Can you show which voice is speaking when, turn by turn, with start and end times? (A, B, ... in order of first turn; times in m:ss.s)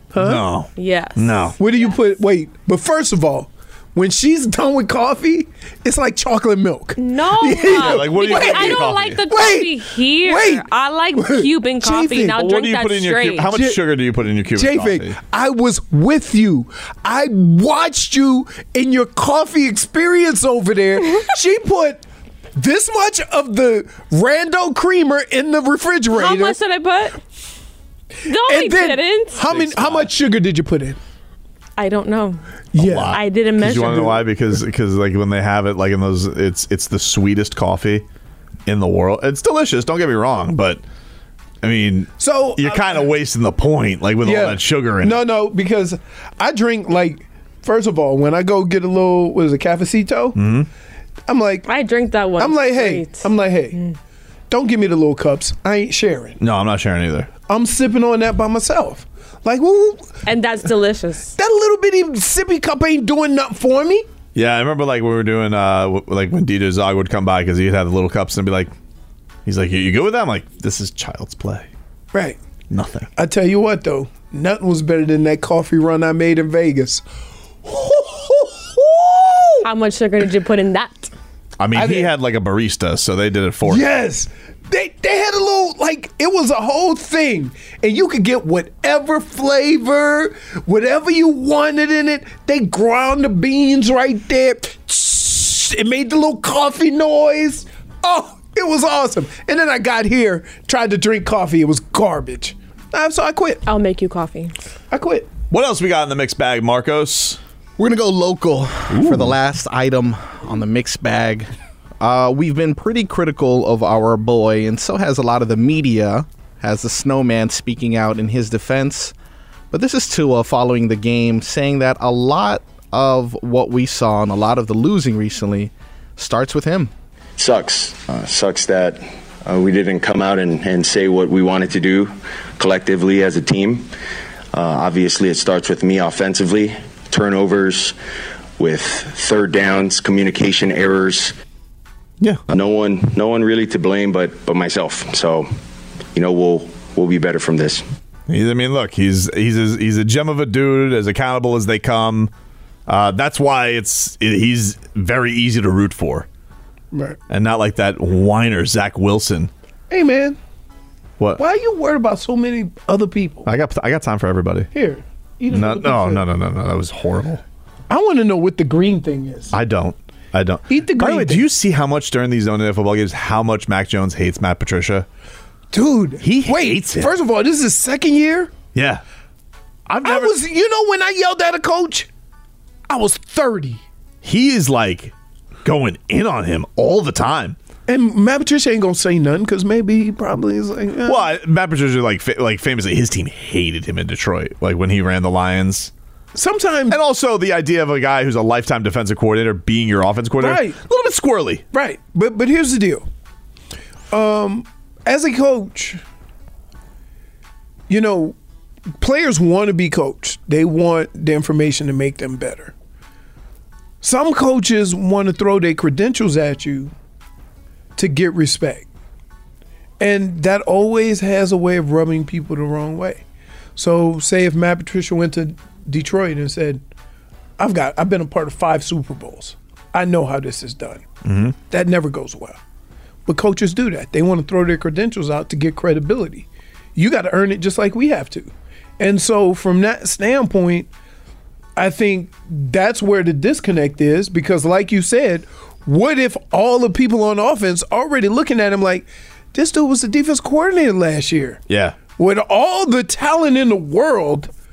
0:00.1-0:00.5 A
0:00.2-0:01.6 B
0:00.8-0:01.9 C
0:01.6-0:12.6 A
0:07.0-0:13.5 C
0:07.7-0:09.2 B
0:12.4-0:15.1 B
0:13.4-0:14.0 A
0:14.5-0:22.0 A
0:22.6-0:26.6 A
0:26.1-0:27.2 C
0:28.2-0:29.5 C
0:28.3-0:31.0 A
0:31.8-0:32.4 C
0:32.7-0:34.2 A
0:32.8-0:38.0 B
0:33.0-0:34.2 C
0:38.6-0:40.8 B
0:41.6-0:45.2 B
0:42.2-0:43.1 A
0:44.2-0:50.4 A
0:50.3-0:50.7 B
0:51.3-0:51.7 A
0:51.6-0:53.3 C
0:52.4-0:53.8 A
0:54.5-0:56.4 A
0:56.4-0:57.3 B
0:57.5-1:00.2 A
1:00.2-1:01.3 C
1:01.3-1:04.1 A
1:04.3-1:08.7 B
1:09.4-1:11.7 B
1:12.1-1:12.4 A
1:12.7-1:13.1 B
1:13.2-1:17.0 A
1:17.6-1:19.7 A
1:19.6-1:21.1 C
1:21.6-1:23.8 B
1:21.7-1:22.2 A
1:23.6-1:43.6 A
1:43.6-1:44.5 C
1:44.9-1:45.3 A
1:45.5-1:47.4 B
1:47.8-1:59.1 D
1:48.9-1:49.4 B
1:59.7-2:06.9 D
2:07.4-2:13.9 E
2:14.5-2:17.9 E
2:18.6-2:21.3 E
2:22.5-2:25.5 E
2:26.1-2:27.8 E
2:28.3-2:32.3 B
2:32.9-2:36.3 B
2:36.9-2:37.2 A
2:37.3-2:39.5 B
2:39.9-2:40.4 A
2:41.4-2:43.5 A
2:43.4-2:44.7 B
2:44.7-2:46.3 A
2:45.5-2:47.4 B
2:47.9-2:49.6 A
2:49.5-2:55.1 B
2:50.7-2:51.5 A
2:55.7-2:58.5 A
2:56.2-2:57.1 B
2:58.7-2:59.0 B
2:59.9-3:00.3 B
3:00.0-3:02.1 A
3:02.9-3:03.8 A
3:04.2-3:07.6 B
3:07.9-3:11.3 A
3:11.0-3:15.9 B
3:16.3-3:17.0 A
3:16.9-3:21.6 B
3:20.4-3:20.8 A
3:21.7-3:23.0 A
3:24.1-3:26.0 A
3:27.9-3:28.4 A
3:29.0-3:32.7 A
3:34.0-3:36.9 A
3:38.0-3:38.9 A
3:40.0-3:43.2 A
3:43.8-3:46.8 A
3:47.6-3:51.0 A
3:51.2-3:51.5 B
3:51.6-3:52.6 A
3:53.2-4:00.9 A
4:01.8-4:11.6 A
4:11.7-4:12.0 B
4:12.2-4:14.5 A